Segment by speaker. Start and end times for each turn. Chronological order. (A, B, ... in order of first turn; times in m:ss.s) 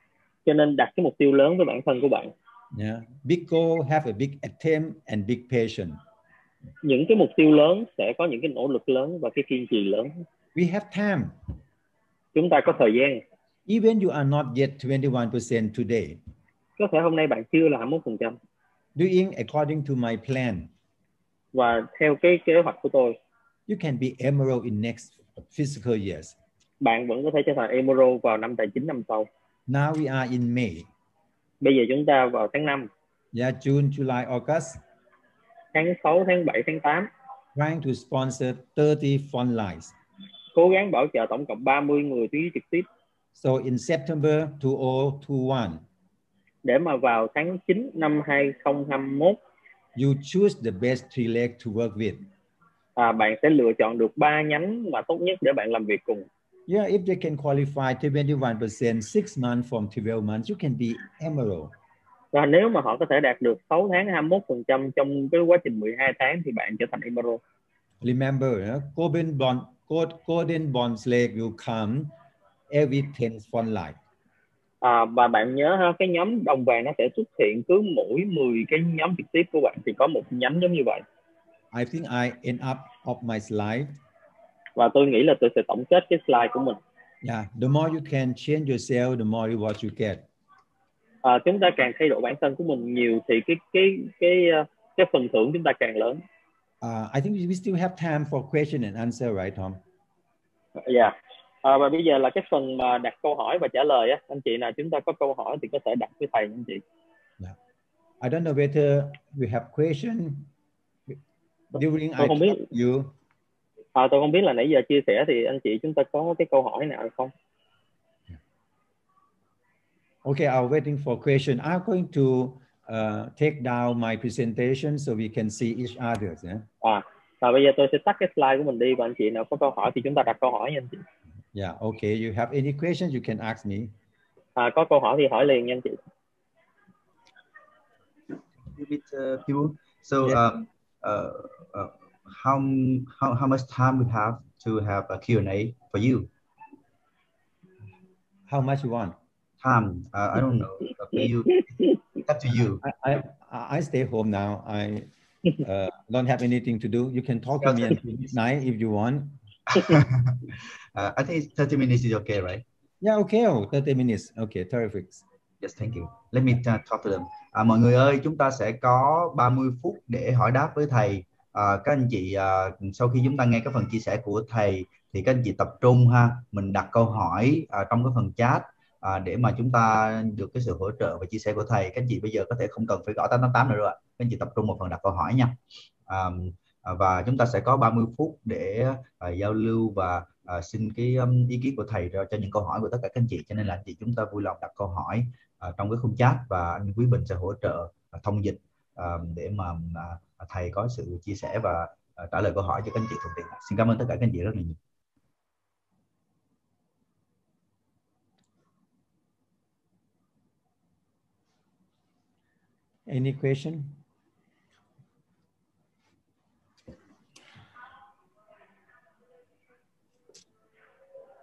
0:00.4-0:02.3 A
0:02.7-0:06.0 B
0:06.8-0:10.2 A
0:10.5-0:11.3 B
0:12.3-0:13.2 A
0:13.7-0:16.2 B
0:16.8-0:18.4 A
0:18.9-0:20.7 B
0:21.5-0:23.2 A
0:23.7-0:26.3 B
0:26.8-0:29.3 A
0:29.7-0:30.9 B
0:31.6-0:32.9 A
0:33.3-0:34.8 B
0:35.7-0:37.1 A
0:37.6-0:39.9 B
0:40.5-0:42.9 A
0:43.3-0:45.8 B
0:46.6-0:49.4 A
0:50.0-0:52.2 B
0:53.0-0:56.3 A
0:56.7-1:01.7 B
1:02.3-1:07.4 A
1:08.0-1:12.1 B
1:12.7-1:14.0 B
1:14.8-1:21.0 A
1:21.7-1:23.9 B
1:24.8-1:26.8 A
1:27.2-1:30.2 B
1:31.2-1:36.2 A
1:36.8-1:39.8 B
1:40.8-1:46.8 A
1:48.2-1:50.5 B
1:51.7-1:53.1 B
1:52.2-1:52.6 A
1:53.9-1:57.3 A
2:00.2-2:06.6 B
2:06.8-2:11.0 A
2:11.5-2:13.9 B
2:14.6-2:16.0 A
2:18.7-2:26.3 C
2:28.5-2:29.1 B
2:29.6-2:32.8 C
2:32.8-2:35.1 B
2:35.6-2:39.3 B
2:39.7-2:42.6 C
2:43.0-2:45.2 B
2:45.6-3:05.6 C
3:06.1-3:24.8 C
3:33.1-3:33.9 B